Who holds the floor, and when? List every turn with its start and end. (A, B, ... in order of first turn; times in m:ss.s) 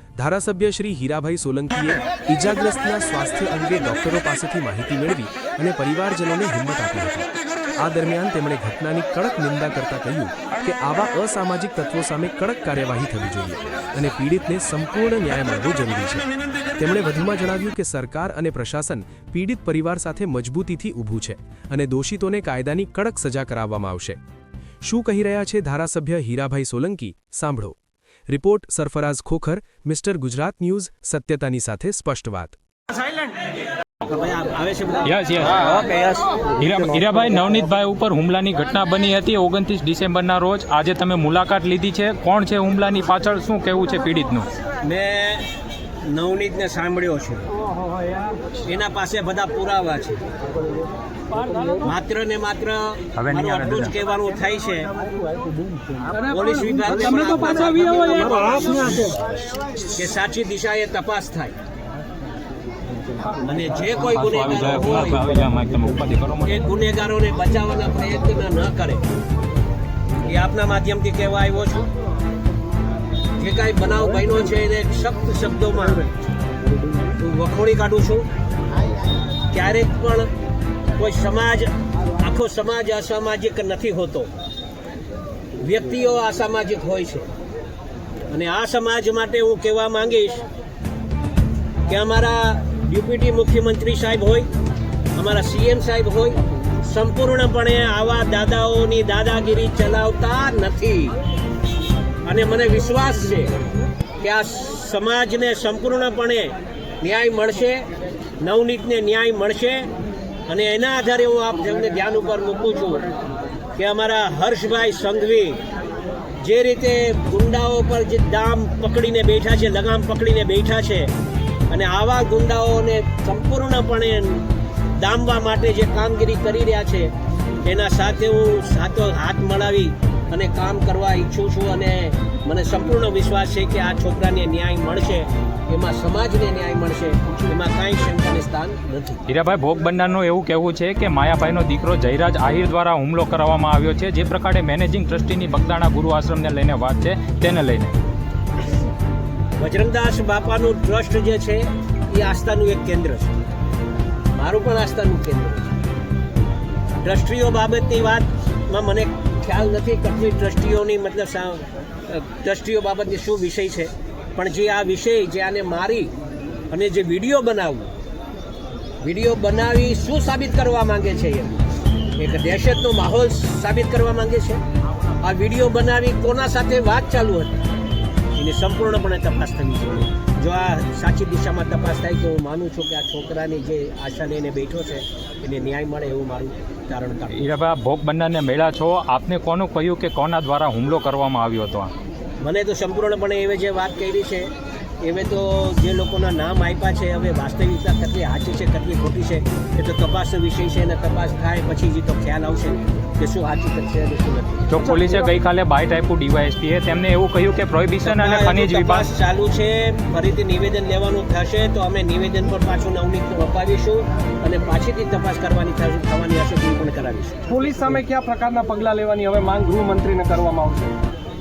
0:00.2-0:16.2 A
0:16.8-0:24.2 A
0:24.8-0:27.8 A
0:28.3-0:32.6 A
0:34.0-0:37.0 B
0:35.0-0:35.8 C
0:36.6-0:44.5 C
0:44.8-0:45.4 B
0:46.1-0:47.4 B
0:48.6-0:50.2 B
0:51.8-0:54.9 B
0:53.2-0:53.9 C
0:56.2-0:59.2 B
0:56.8-0:59.1 D
0:59.8-1:01.6 B
1:03.4-1:05.3 B
1:04.1-1:06.6 C
1:06.4-1:09.0 B
1:10.2-1:11.8 B
1:13.4-1:16.0 B
1:17.2-1:18.3 B
1:19.5-1:20.3 B
1:21.0-1:24.3 B
1:25.6-1:27.3 B
1:28.3-1:30.4 B
1:31.9-1:34.5 B
1:35.2-1:41.2 B
1:42.2-1:43.5 B
1:44.2-1:47.8 B
1:48.4-1:49.9 B
1:50.5-1:53.0 B
1:53.8-1:55.6 B
1:56.4-2:01.1 B
2:01.7-2:07.1 B
2:07.6-2:19.2 B
2:19.3-2:28.0 C
2:29.6-2:33.3 B
2:34.3-2:35.7 B
2:37.0-2:46.1 B
2:46.7-2:47.9 B
2:49.0-2:51.6 B
2:52.2-2:54.6 B
2:55.2-2:57.6 B
2:58.4-3:07.5 B
3:07.3-3:11.9 C
3:12.4-3:24.8 B
3:24.7-3:29.1 C
3:24.8-3:25.3 D
3:28.0-3:37.4 B
3:37.5-3:40.9 D